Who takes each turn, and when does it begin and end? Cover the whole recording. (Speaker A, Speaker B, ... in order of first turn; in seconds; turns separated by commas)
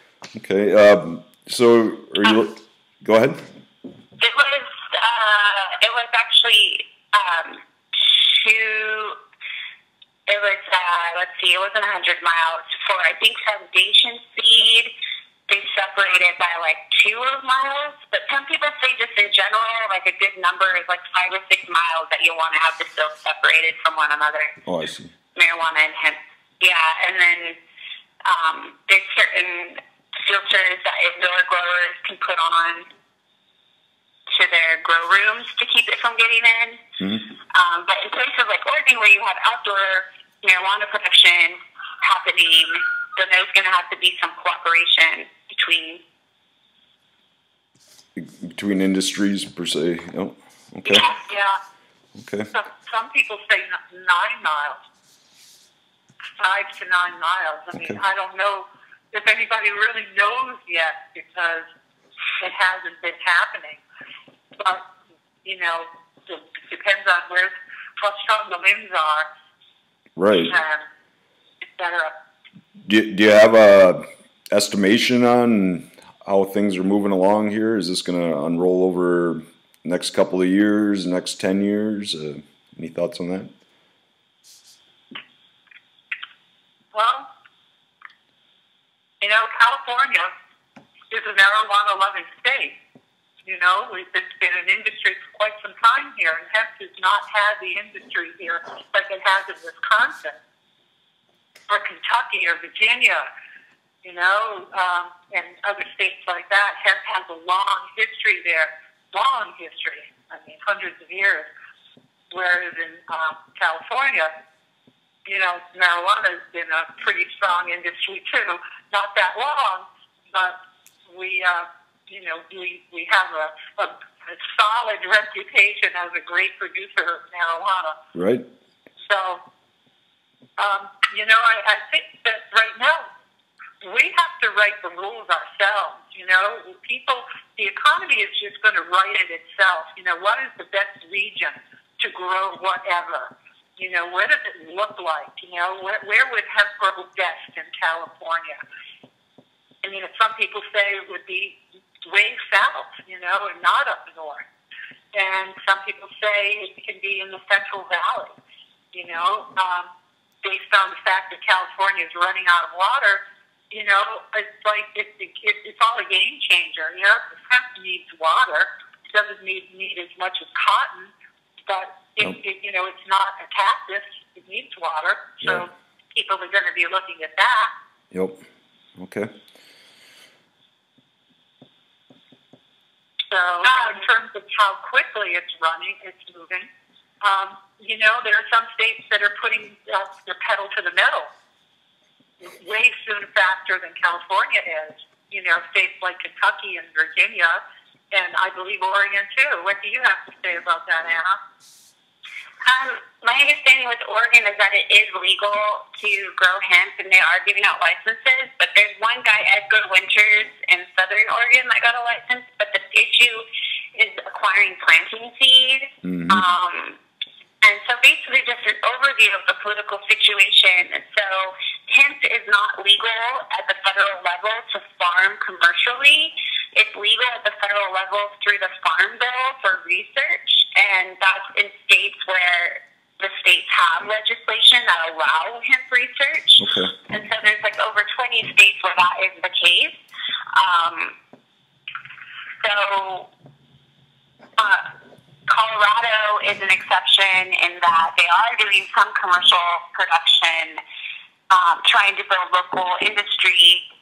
Speaker A: 0.3-3.5, Speaker B: 4.2-9.2, Speaker B: 10.3-14.9, Speaker B: 15.5-24.5, Speaker A: 24.6-25.1, Speaker B: 25.3-27.6, Speaker B: 28.2-32.9, Speaker B: 34.3-36.8, Speaker B: 37.5-46.0, Speaker A: 48.1-51.0, Speaker B: 50.9-51.3, Speaker C: 51.3-51.6, Speaker A: 52.1-52.5, Speaker C: 52.5-54.8, Speaker C: 56.4-61.7, Speaker C: 62.4-63.8, Speaker C: 64.6-64.8, Speaker C: 65.4-69.3, Speaker A: 70.2-70.5, Speaker C: 70.5-70.9, Speaker C: 71.8-72.1, Speaker A: 72.8-83.5, Speaker C: 86.9-87.3, Speaker C: 89.2-90.3, Speaker C: 91.1-92.8, Speaker C: 93.4-100.4, Speaker C: 101.7-103.2, Speaker C: 104.0-111.5, Speaker C: 112.3-114.3, Speaker C: 115.2-128.0, Speaker A: 128.1-128.4, Speaker C: 129.1-129.4, Speaker C: 130.6-133.1, Speaker C: 133.8-148.6, Speaker C: 149.8-154.4, Speaker C: 155.1-158.4, Speaker C: 158.9-159.9, Speaker C: 160.4-171.1, Speaker C: 171.7-177.7, Speaker A: 178.1-178.4, Speaker A: 178.9-179.3, Speaker C: 183.3-186.7, Speaker C: 187.2-191.3, Speaker C: 192.4-201.4, Speaker B: 202.6-217.0, Speaker A: 216.0-216.4, Speaker B: 217.6-239.9, Speaker A: 236.6-236.9, Speaker B: 240.5-241.2, Speaker B: 242.6-243.3, Speaker B: 244.6-244.9, Speaker B: 245.5-250.8, Speaker B: 251.5-253.8